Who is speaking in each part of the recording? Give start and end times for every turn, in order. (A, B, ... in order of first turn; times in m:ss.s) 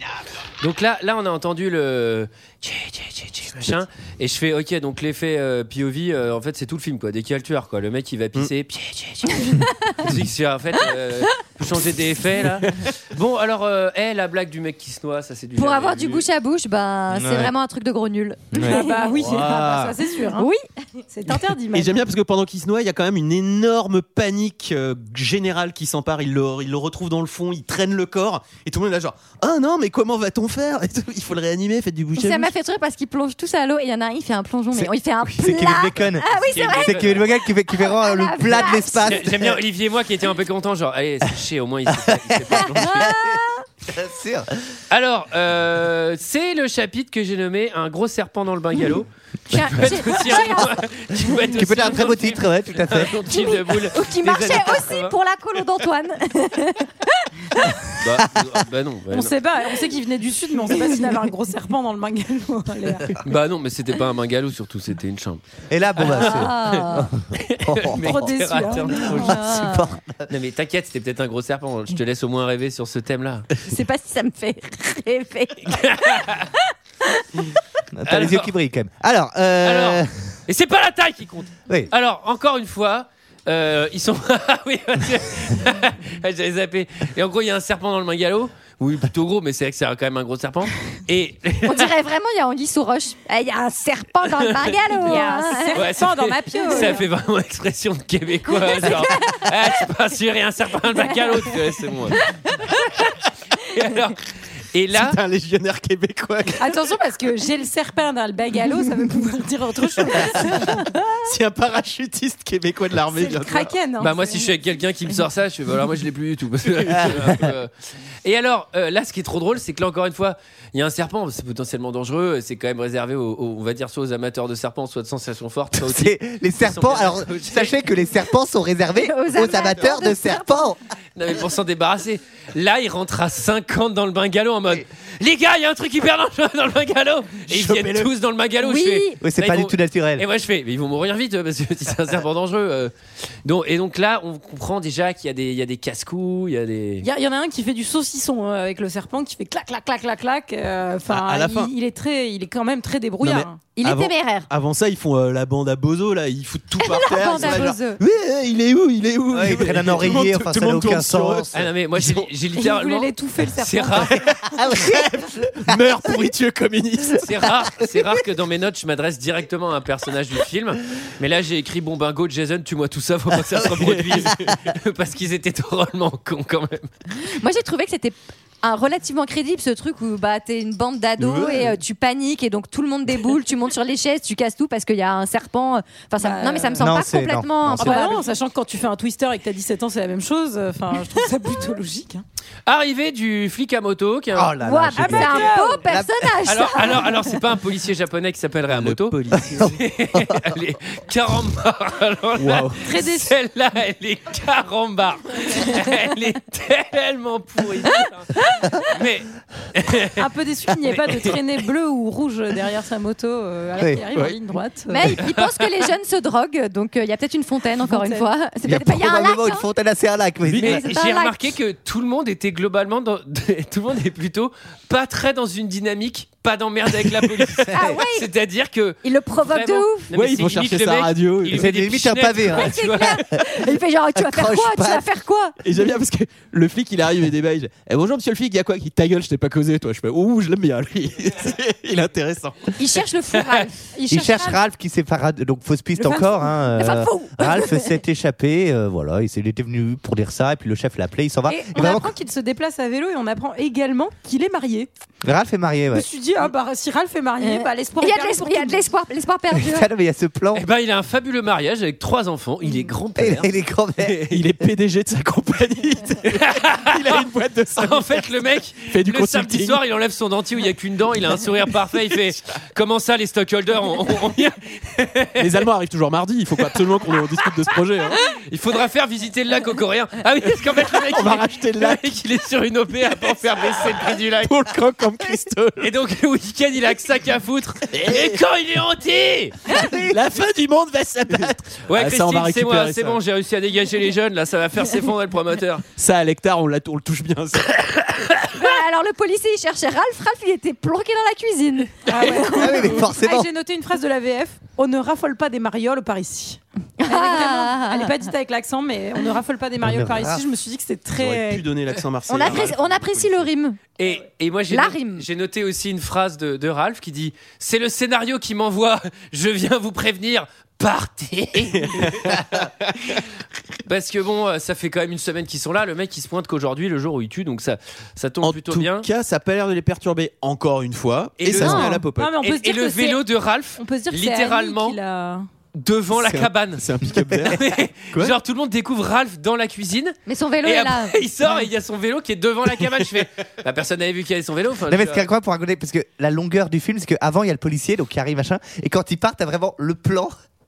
0:00.6-0:16.2 A
0:15.6-0:19.2 B
0:17.1-0:17.5 C
0:18.6-0:20.5 D
0:19.2-0:20.0 E
0:20.4-0:20.6 B
0:21.1-0:22.0 D
0:21.7-0:32.5 E
0:32.2-0:39.2 B
0:34.7-0:39.6 C
0:36.5-0:37.3 A
0:39.1-0:43.1 A
0:42.0-0:44.5 C
0:42.6-0:43.6 B
0:44.9-0:55.2 A
0:49.5-0:51.5 B
0:51.6-0:53.2 C
0:53.3-0:57.8 B
0:58.0-0:59.4 A
0:59.1-1:03.2 D
1:00.7-1:01.1 B
1:03.2-1:05.4 A
1:05.7-1:10.3 C
1:06.0-1:09.4 A
1:06.1-1:07.1 B
1:08.0-1:09.4 D
1:09.1-1:09.9 B
1:10.3-1:13.5 A
1:13.6-1:17.2 B
1:15.7-1:16.5 A
1:18.0-1:20.1 C
1:18.1-1:18.5 A
1:19.6-1:31.9 A
1:31.6-1:35.9 B
1:34.3-1:34.8 A
1:34.9-1:37.1 D
1:35.7-1:42.2 A
1:38.7-1:39.6 B
1:43.7-1:44.2 A
1:44.7-1:45.2 A
1:44.9-1:46.7 E
1:46.6-1:50.9 D
1:50.2-1:50.5 E
1:51.2-1:53.7 E
1:53.1-1:54.5 D
1:54.0-1:57.7 A
1:56.9-1:57.4 E
1:58.2-2:07.8 A
2:05.8-2:10.8 C
2:09.0-2:10.7 B
2:11.2-2:22.9 A
2:17.5-2:18.1 E
2:18.6-2:19.2 B
2:19.2-2:20.2 C
2:23.4-2:27.1 A
2:27.0-2:33.6 D
2:31.1-2:31.7 E
2:33.2-2:42.3 E
2:33.8-2:34.5 B
2:36.8-2:38.0 B
2:39.3-2:41.7 C
2:41.5-2:44.2 A
2:42.5-2:44.2 D
2:44.5-2:45.8 C
2:44.8-2:47.2 E
2:47.2-2:56.9 A
2:47.8-2:48.0 C
2:53.5-2:54.6 E
2:57.2-3:08.2 B
3:01.2-3:01.8 E
3:06.2-3:06.9 D
3:06.8-3:08.2 C
3:07.8-3:12.2 D
3:12.7-3:14.5 A
3:14.3-3:16.8 C
3:14.6-3:17.3 B
3:15.0-3:15.8 D
3:16.4-3:30.2 A
3:18.7-3:19.8 E
3:19.3-3:20.4 C
3:22.4-3:22.8 E
3:22.8-3:23.3 D
3:30.2-3:35.1 D
3:30.9-3:31.4 A
3:33.8-3:34.0 C
3:34.1-3:34.4 E
3:34.9-3:39.7 B
3:35.3-3:35.7 A
3:37.8-3:38.3 D
3:38.6-3:40.8 C
3:40.6-3:53.2 A
3:40.6-3:41.4 B
3:47.7-3:48.3 B
3:49.0-3:50.1 B
3:50.1-3:51.7 E
3:51.5-3:55.0 C
3:52.5-3:55.6 B
3:55.6-4:02.8 E
4:02.8-4:03.9 B
4:03.9-4:04.6 D
4:04.1-4:12.1 C
4:06.0-4:07.6 D
4:06.8-4:07.8 B
4:11.5-4:14.9 D
4:15.2-4:16.1 C
4:15.9-4:18.9 D
4:17.4-4:19.9 B
4:19.5-4:20.7 C
4:20.5-4:24.4 A
4:23.2-4:24.2 C
4:24.3-4:29.8 E
4:26.3-4:27.2 A
4:27.8-4:35.6 A
4:35.4-4:38.2 E
4:36.6-4:37.2 A
4:38.2-4:44.6 A
4:41.1-4:42.2 E
4:43.5-4:45.9 E
4:45.8-4:49.6 A
4:47.9-4:48.4 E
4:49.7-4:53.2 E
4:49.7-4:50.1 C
4:51.8-4:55.8 A
4:56.0-4:58.1 E
4:58.5-5:03.0 B
5:02.1-5:11.7 D
5:02.4-5:03.5 C
5:07.0-5:08.3 B
5:09.8-5:10.4 C
5:11.2-5:13.5 E
5:12.3-5:13.8 B
5:14.0-5:22.5 A
5:14.7-5:15.3 B
5:21.7-5:23.2 E
5:23.9-5:29.1 A
5:28.4-5:32.4 E
5:31.4-5:35.0 A
5:31.6-5:32.0 B
5:32.2-5:35.5 D
5:35.7-5:45.3 A
5:36.1-5:38.4 E
5:37.1-5:37.5 C
5:40.3-5:41.2 B
5:44.9-5:50.3 C